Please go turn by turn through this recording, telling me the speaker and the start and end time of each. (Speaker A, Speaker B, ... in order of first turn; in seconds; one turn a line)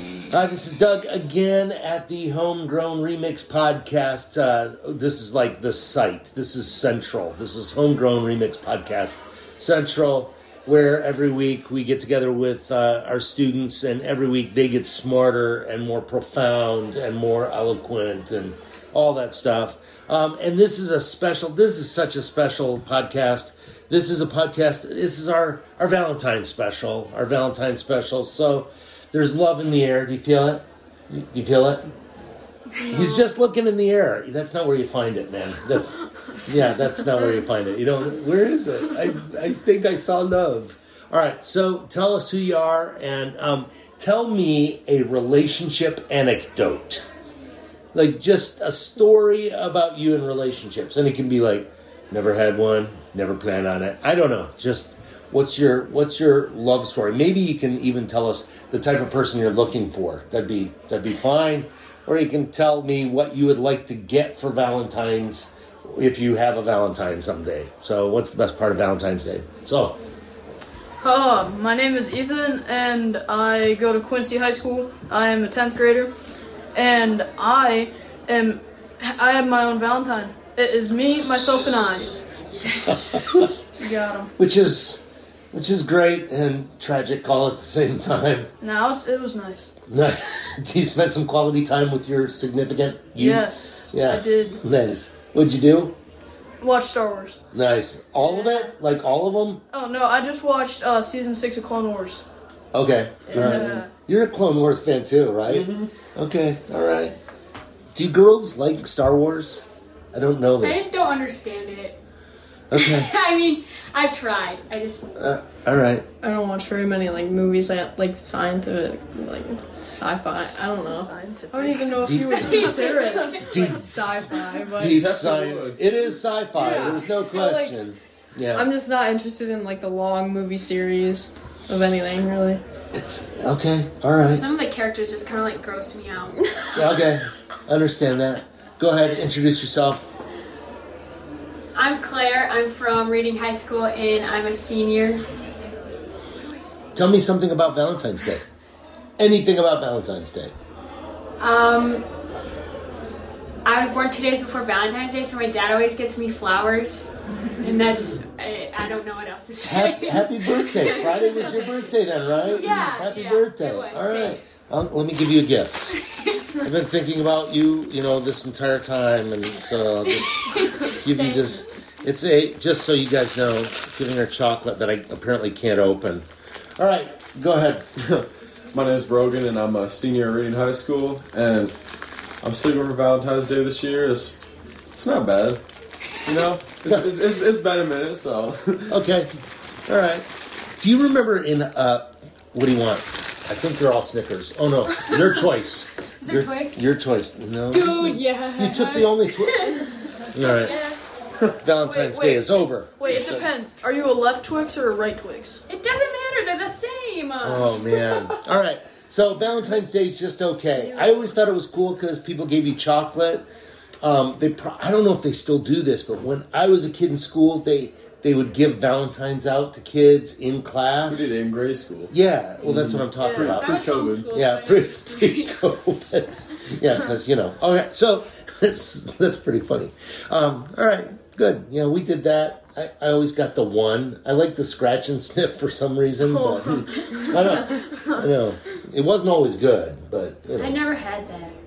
Speaker A: 0.3-31.9
Speaker A: 32.8-47.1
Speaker A: 47.9-70.0
Speaker B: 71.0-76.1
Speaker B: 76.7-82.1
Speaker A: 82.9-83.5
Speaker B: 83.8-84.3
Speaker A: 84.4-88.5
Speaker B: 88.6-89.7
Speaker A: 89.9-96.0
Speaker B: 93.2-94.6
Speaker B: 96.6-97.4
Speaker A: 97.5-99.6
Speaker B: 98.3-98.7
Speaker B: 99.7-102.2
Speaker A: 102.7-107.2
Speaker B: 103.3-103.9
Speaker C: 103.3-103.8
Speaker C: 105.5-105.9
Speaker A: 107.9-110.9
Speaker D: 110.6-112.0
Speaker A: 112.7-113.1
Speaker D: 112.7-115.1
Speaker A: 115.2-116.0
Speaker E: 116.2-125.0
Speaker B: 120.3-123.6
Speaker A: 122.0-122.7
Speaker D: 122.2-123.4
Speaker A: 123.4-128.7
Speaker C: 124.8-125.8
Speaker E: 126.5-127.7
Speaker E: 128.5-132.6
Speaker A: 132.9-134.4
Speaker D: 134.3-136.5
Speaker A: 136.7-140.1
Speaker D: 141.8-145.2
Speaker D: 146.4-146.9
Speaker A: 146.9-148.4
Speaker A: 149.2-150.5
Speaker D: 151.4-152.1
Speaker D: 153.6-157.1
Speaker D: 157.6-161.8
Speaker A: 159.6-166.0
Speaker D: 162.4-164.5
Speaker D: 165.9-166.5
Speaker A: 166.6-176.2
Speaker D: 170.1-171.6
Speaker A: 176.8-177.9
Speaker C: 178.0-181.7
Speaker C: 182.4-184.4
Speaker C: 184.9-185.6
Speaker C: 186.2-189.0
Speaker A: 186.9-187.1
Speaker A: 188.9-189.3
Speaker A: 189.9-190.3
Speaker A: 190.8-199.8
Speaker D: 196.2-196.8
Speaker D: 197.7-201.0
Speaker A: 200.3-200.8
Speaker A: 201.6-203.4
Speaker B: 201.8-205.6
Speaker D: 205.7-207.9
Speaker A: 207.4-213.4
Speaker A: 214.0-221.3
Speaker C: 221.1-222.1
Speaker A: 222.1-240.8
Speaker C: 222.6-224.3
Speaker B: 223.2-223.5
Speaker D: 223.6-225.6
Speaker B: 236.2-238.2
Speaker D: 240.6-241.6